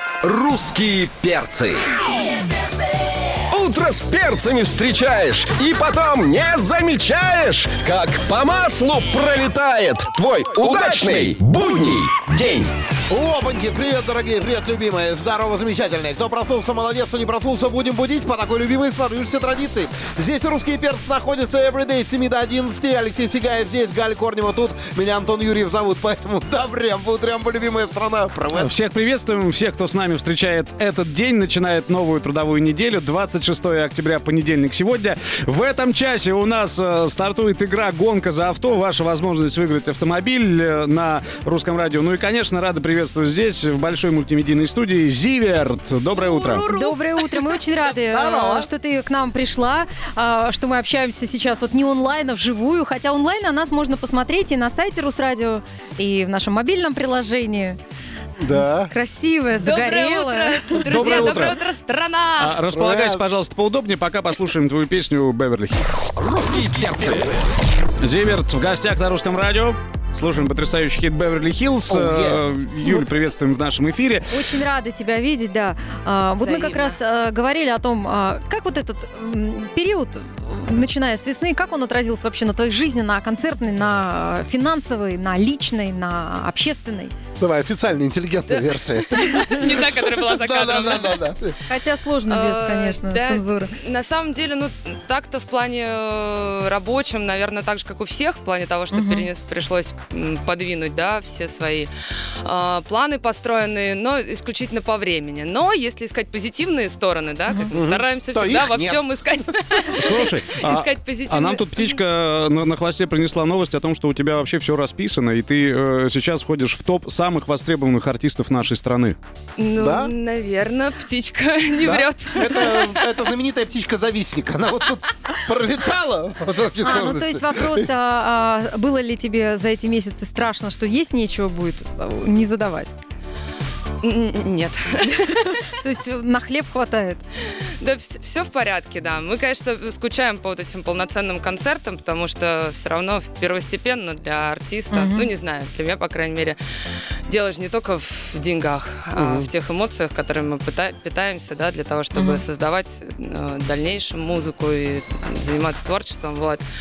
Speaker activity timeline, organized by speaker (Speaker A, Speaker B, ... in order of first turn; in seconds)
Speaker A: 0.2-1.9, 3.5-12.7, 66.2-67.3
Speaker B: 10.5-11.4, 13.1-28.7, 48.0-48.7, 58.4-58.9, 62.7-63.2, 71.9-73.0, 87.4-91.6, 107.7-109.1, 119.8-120.1, 121.8-127.9, 149.2-149.5
Speaker C: 28.5-46.7, 60.9-61.6, 62.4-65.9, 68.0-74.2, 110.0-119.2
Speaker D: 46.2-57.8, 58.8-61.5, 74.3-87.1, 91.7-93.8, 98.9-99.3, 126.8-132.9, 135.6-137.2, 144.9-145.3, 152.2-152.4
Speaker E: 59.6-62.6, 76.4-77.0, 88.5-91.3, 92.3-101.9, 102.4-112.0, 119.6-123.0, 134.0-135.6, 137.8-156.6